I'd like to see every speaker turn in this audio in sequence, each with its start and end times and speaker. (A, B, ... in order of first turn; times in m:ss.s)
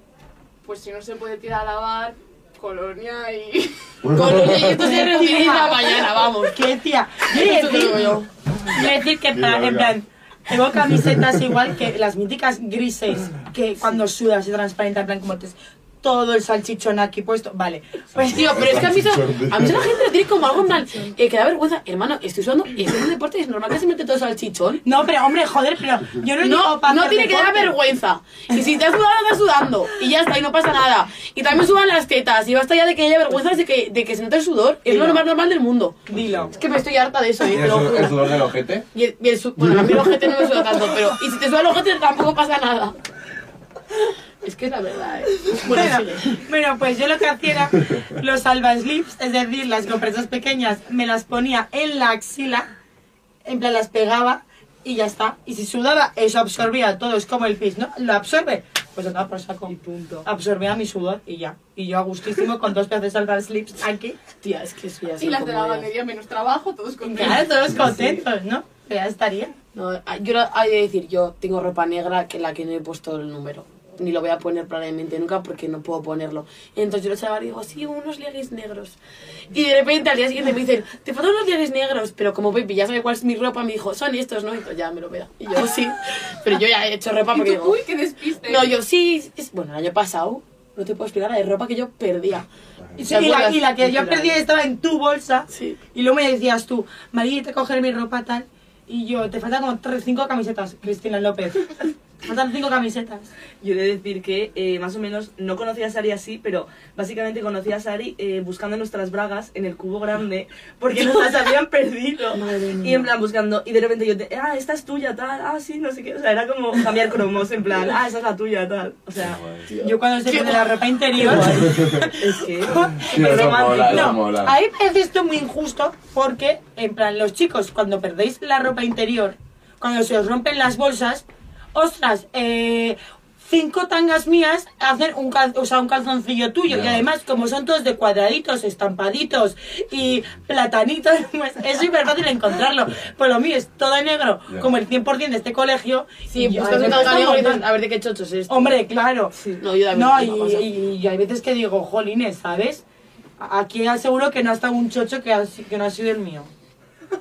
0:00.6-0:03.8 A
0:04.0-0:04.8 B
0:04.1-0:06.6 C
0:04.6-0:05.9 D
0:05.5-0:06.1 A
0:06.5-0:18.5 D
0:07.3-0:08.3 C
0:09.3-0:10.0 B
0:10.9-0:11.4 B
0:18.2-0:20.0 B
0:18.2-0:24.8 C
0:24.8-0:27.8 D
0:26.4-0:36.0 C
0:34.9-0:35.2 D
0:36.1-0:36.6 D
0:36.1-0:36.6 B
0:36.6-0:38.4 C
0:37.5-0:38.9 B
0:38.9-0:43.0 C
0:44.4-0:46.4 C
0:45.6-0:52.7 D
0:53.4-0:59.7 D
0:59.7-1:00.3 E
1:00.2-1:04.2 D
1:04.4-1:05.9 C
1:05.2-1:07.6 A
1:07.0-1:09.5 D
1:07.8-1:08.2 B
1:09.8-1:19.0 C
1:19.5-1:27.8 C
1:27.3-1:28.8 A
1:28.5-1:32.5 C
1:33.0-1:43.3 D
1:33.0-1:34.3 C
1:35.5-1:35.8 C
1:43.6-1:59.4 E
1:52.3-1:53.1 C
1:59.2-1:59.7 B
1:59.7-2:00.8 C
1:59.8-2:27.7 D
2:01.2-2:04.2 E
2:01.4-2:02.1 B
2:03.0-2:04.6 B
2:16.7-2:17.1 B
2:24.5-2:24.7 B
2:26.3-2:28.8 C
2:28.5-2:32.8 D
2:29.4-2:29.6 E
2:29.6-2:30.7 C
2:33.4-2:36.5 D